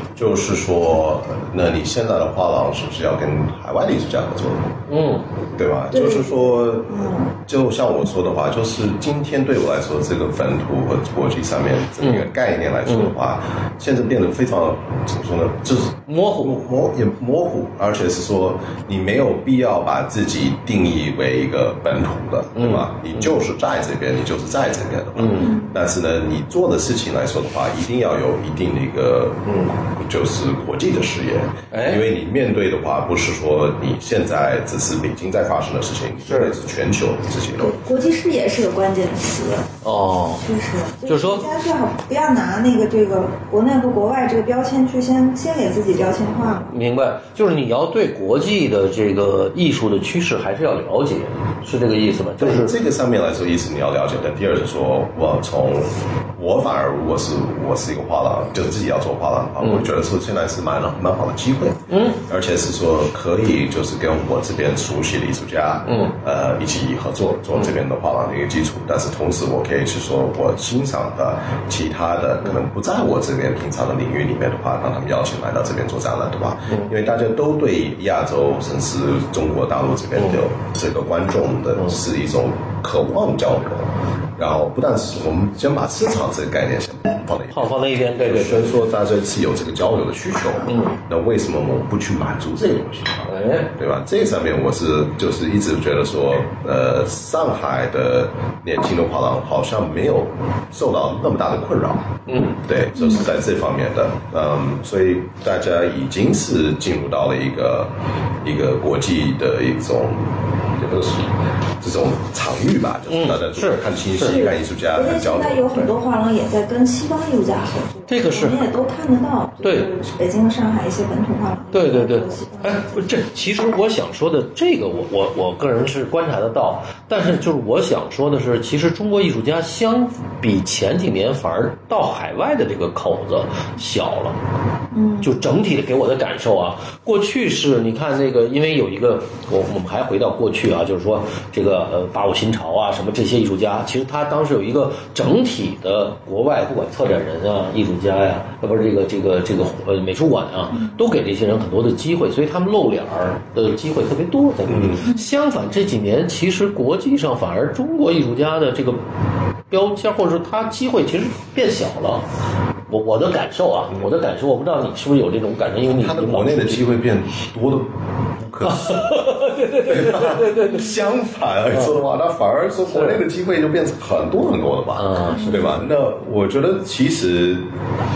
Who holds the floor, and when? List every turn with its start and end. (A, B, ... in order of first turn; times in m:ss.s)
0:00.2-0:04.8 A
0:04.9-0:05.2 B
0:05.5-0:37.8 A
0:05.9-0:07.3 C
0:12.0-0:12.3 B
0:16.1-0:16.6 B
0:22.6-0:23.4 B
0:25.2-0:25.6 B
0:25.4-0:25.7 C
0:29.4-0:29.7 B
0:31.7-0:32.0 B
0:36.2-0:36.6 B
0:37.6-0:39.8 C
0:39.8-0:40.4 B
0:40.4-0:46.7 C
0:41.0-0:41.4 B
0:46.7-0:52.7 B
0:52.4-1:55.8 A
0:59.6-0:59.9 B
1:01.9-1:02.2 B
1:05.8-1:06.2 B
1:27.5-1:28.8 B
1:30.7-1:31.0 B
1:33.3-1:33.7 B
1:42.3-1:42.6 B
1:53.1-1:54.4 B
1:54.2-2:02.9 C
1:58.1-1:58.6 B
1:59.6-1:59.9 B
2:01.7-2:14.4 B
2:14.9-2:15.4 C
2:15.2-2:39.0 B
2:34.7-2:35.1 A
2:39.7-2:42.2 B
2:42.9-2:46.8 B
2:46.0-2:57.7 A
2:48.6-2:51.0 B
2:52.9-2:53.2 B
2:55.0-2:55.7 B